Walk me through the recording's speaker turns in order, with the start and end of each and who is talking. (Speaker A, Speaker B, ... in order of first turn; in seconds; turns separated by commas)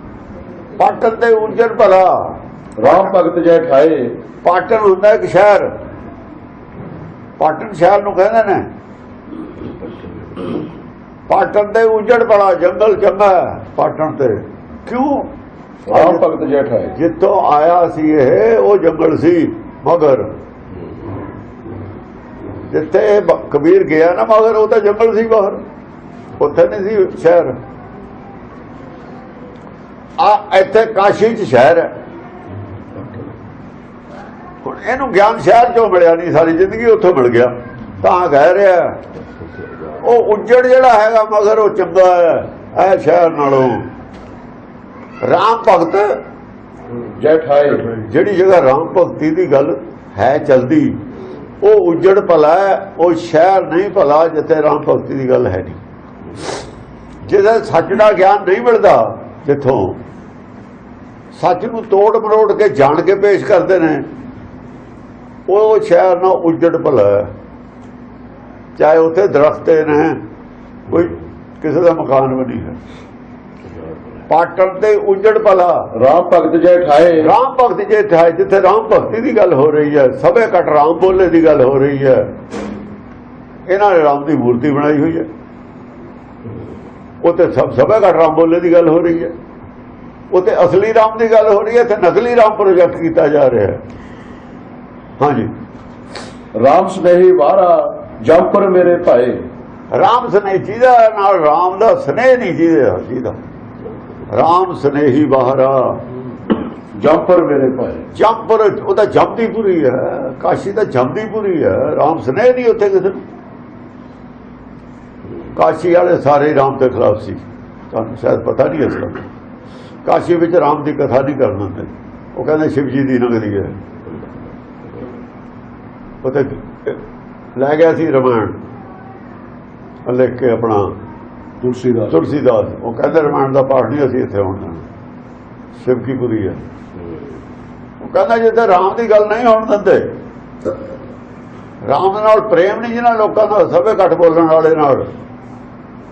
Speaker A: 0.8-3.1, Speaker B: 2.8-4.1, Speaker A: 4.4-5.7, Speaker A: 7.4-8.7, Speaker A: 11.3-15.3, Speaker B: 15.9-16.9, Speaker A: 15.9-16.2, Speaker A: 16.9-20.3, Speaker A: 22.7-25.6, Speaker A: 26.4-27.6, Speaker A: 30.2-31.9, Speaker A: 34.6-39.0, Speaker A: 40.0-43.9, Speaker A: 45.2-46.2, Speaker B: 47.2-47.9, Speaker A: 47.9-51.0, Speaker A: 51.6-55.8, Speaker A: 57.2-60.0, Speaker A: 61.3-64.0, Speaker A: 65.5-67.3, Speaker A: 68.8-70.2, Speaker A: 70.9-72.8, Speaker A: 74.3-75.9, Speaker B: 75.9-77.3, Speaker A: 77.2-82.2, Speaker A: 83.7-85.3, Speaker A: 87.2-89.3, Speaker A: 90.3-93.8, Speaker A: 95.2-95.5, Speaker B: 96.5-99.4, Speaker A: 99.9-103.4, Speaker A: 104.3-106.0, Speaker B: 107.0-108.0, Speaker A: 108.1-113.2, Speaker A: 115.5-119.2, Speaker A: 120.0-123.7, Speaker A: 126.2-127.0, Speaker A: 127.5-128.6, Speaker A: 130.1-130.9, Speaker B: 131.6-132.2, Speaker A: 132.1-134.8, Speaker A: 135.8-136.6, Speaker A: 138.0-140.1, Speaker A: 141.8-145.1